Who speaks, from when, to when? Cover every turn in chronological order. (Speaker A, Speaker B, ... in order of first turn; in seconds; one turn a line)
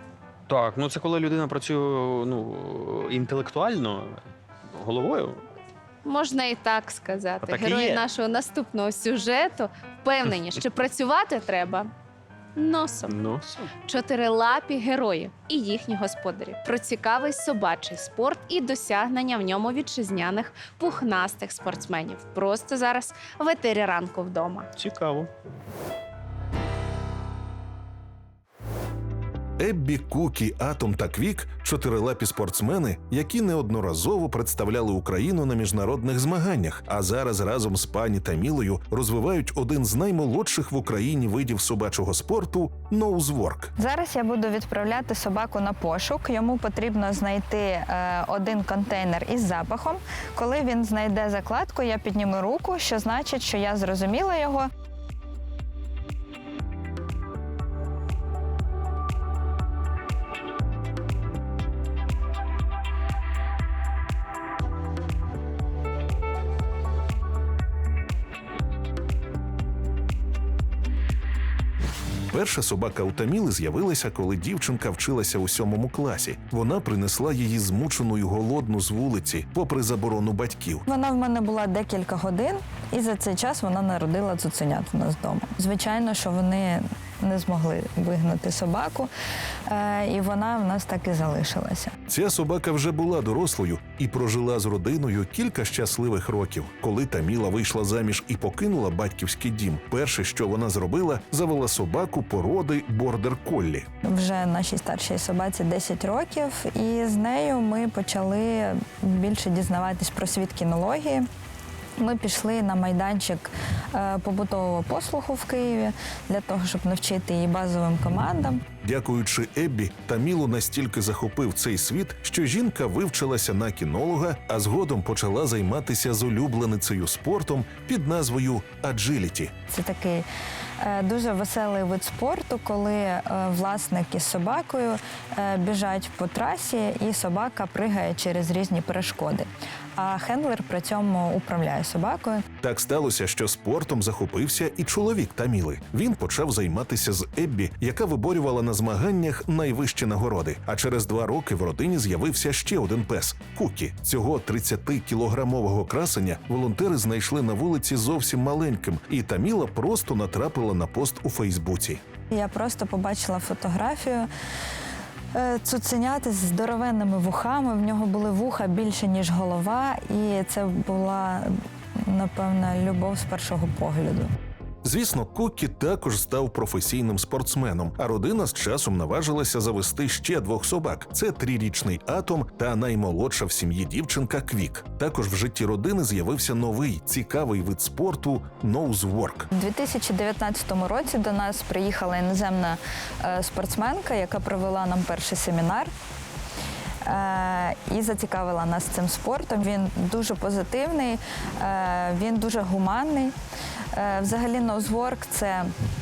Speaker A: 0.5-5.4
Speaker B: 6.0-11.9
Speaker A: 7.4-8.0
Speaker B: 12.6-13.2
Speaker A: 13.1-13.7
Speaker B: 13.8-24.7
Speaker A: 24.8-25.3
Speaker C: 29.6-43.7
Speaker D: 43.8-54.7
Speaker C: 72.3-80.8
Speaker D: 80.8-89.1
Speaker D: 89.7-91.9
Speaker C: 92.1-103.8
Speaker D: 104.0-111.2
Speaker D: 112.0-118.6
Speaker C: 118.8-129.5
Speaker D: 129.7-130.3
Speaker D: 130.8-142.4
Speaker C: 142.6-162.0
Speaker D: 162.3-164.3
Speaker D: 165.3-174.3
Speaker C: 174.8-189.5
Speaker D: 189.5-195.9
Speaker D: 197.0-203.3
Speaker D: 203.9-205.7